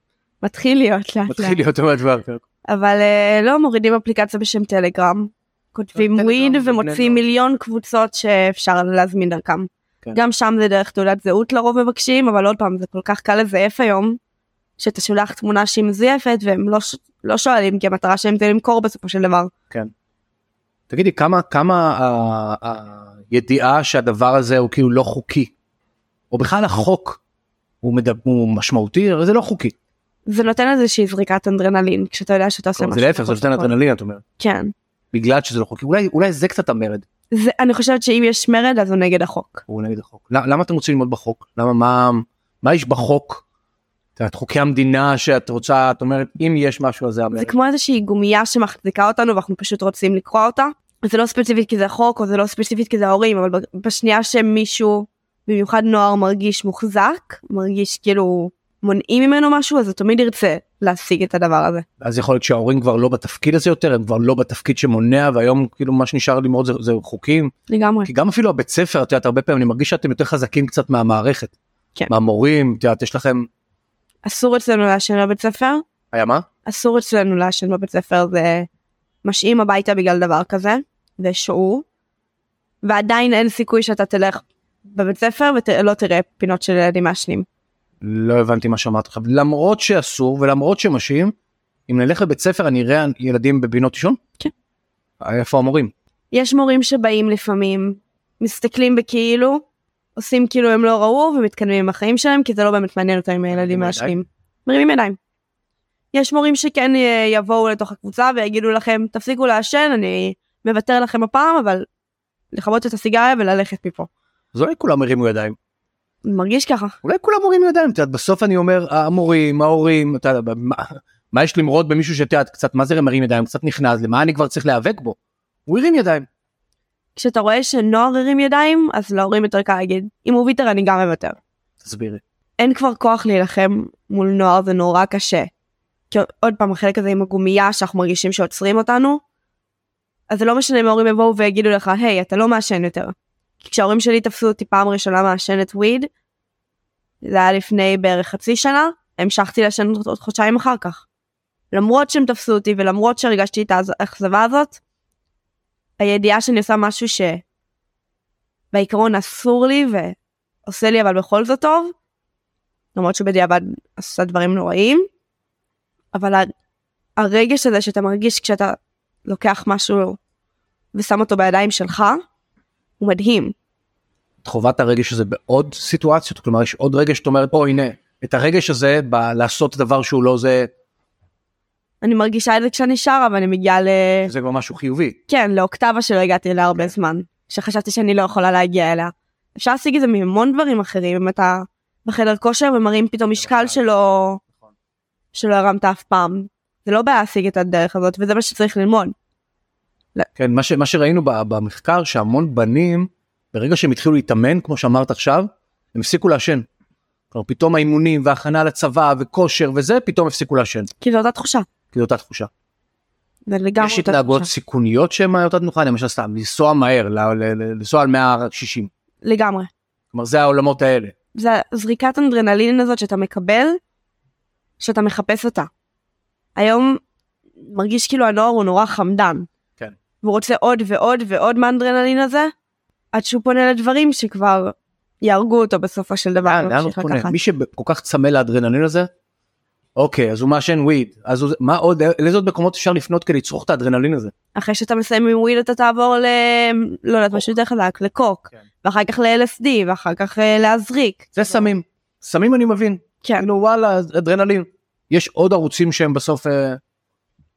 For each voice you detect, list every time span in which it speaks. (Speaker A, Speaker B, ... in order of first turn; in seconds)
Speaker A: 0.4-1.6, 2.7-14.2, 14.8-19.5, 30.3-33.7, 34.4-34.7, 37.3-39.6, 47.3-61.9, 67.7-68.1, 74.2-75.8, 76.7-78.7, 79.2-81.8, 82.8-87.5, 96.3-99.6, 100.2-105.2, 106.1-111.9, 112.5-114.1, 116.2-117.0, 127.2-131.4, 132.6-135.5, 136.1-139.2, 140.3-146.1, 147.2-151.1, 151.7-154.8, 156.0-157.4, 158.7-161.9, 162.9-165.1, 166.1-166.5, 167.2-170.2, 170.9-172.2, 173.0-173.5, 182.0-184.3, 185.3-194.4, 195.3-199.1, 211.0-211.7, 213.5-214.5, 219.2-219.7, 221.3-223.8, 224.8-225.7, 226.6-227.0, 227.6-229.5, 230.2-232.5, 233.1-237.3, 244.6-251.7
Speaker B: 1.3-2.4, 6.0-7.2, 20.9-25.5, 26.3-27.2, 27.8-29.7, 32.8-34.2, 35.1-37.0, 39.7-43.4, 44.2-47.5, 62.0-67.5, 68.0-71.5, 72.1-73.5, 76.1-76.5, 88.0-91.3, 91.9-94.2, 95.2-95.9, 103.5-104.2, 114.5-115.6, 117.0-125.2, 125.7-126.3, 131.8-132.2, 174.4-180.7, 184.3-185.2, 193.4-193.8, 200.4-206.7, 207.3-210.9, 211.9-212.5, 213.8-218.9, 220.1-221.1, 236.4-239.1, 240.0-244.3, 251.3-256.8